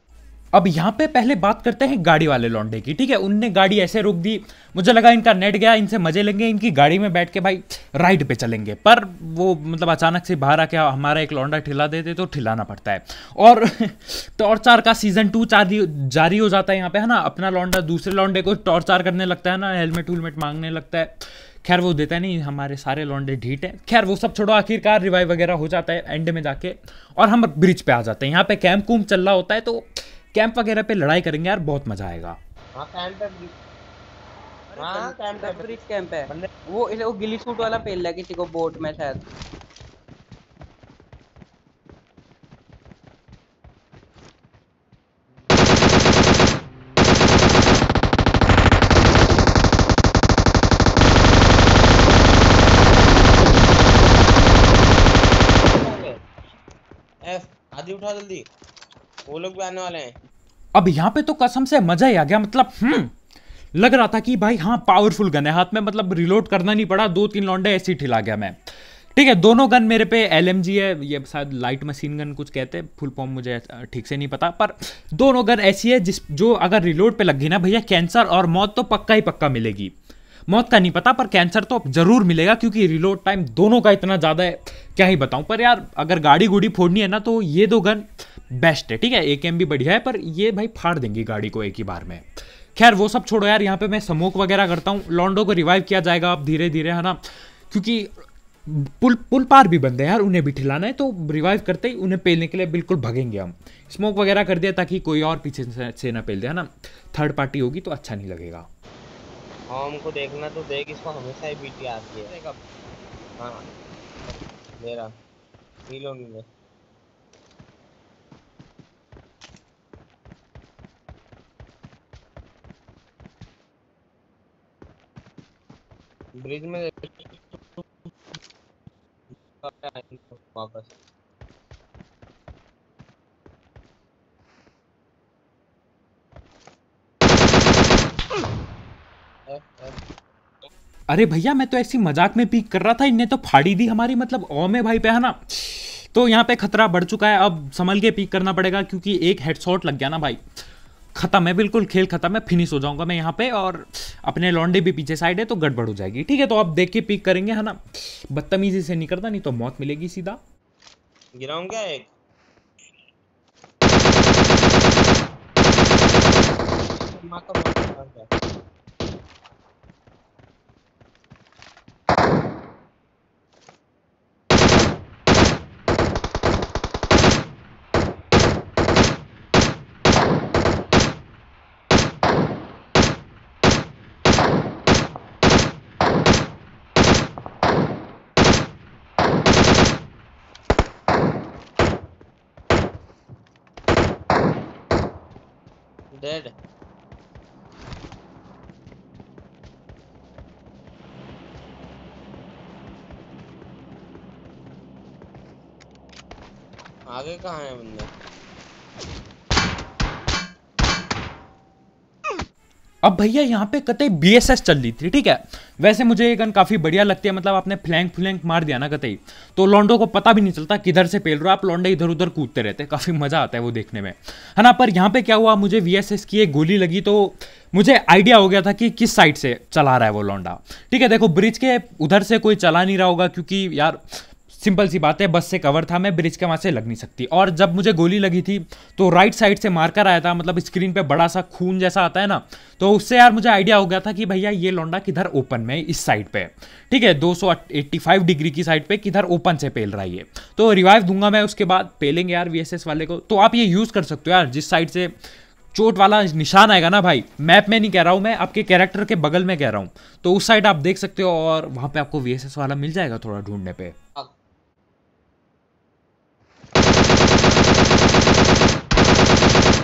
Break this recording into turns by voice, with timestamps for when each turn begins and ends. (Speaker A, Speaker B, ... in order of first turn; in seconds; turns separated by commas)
Speaker A: 0.5-32.4, Speaker B: 32.8-33.5, Speaker C: 34.7-39.2, Speaker B: 34.8-36.5, Speaker B: 55.6-56.2, Speaker B: 57.3-58.5, Speaker B: 59.3-60.1, Speaker A: 60.7-63.1, Speaker A: 63.7-68.6, Speaker A: 69.1-79.9, Speaker A: 80.5-108.7, Speaker B: 109.7-112.4, Speaker B: 114.3-115.1, Speaker B: 115.9-116.4, Speaker B: 126.4-127.8, Speaker B: 129.5-130.9, Speaker B: 139.5-139.9, Speaker A: 141.1-150.4, Speaker A: 151.1-160.4, Speaker B: 161.4-162.1, Speaker B: 167.0-168.3, Speaker B: 196.1-196.5, Speaker B: 207.1-208.1, Speaker A: 213.0-255.1, Speaker A: 255.7-263.9, Speaker B: 267.4-267.9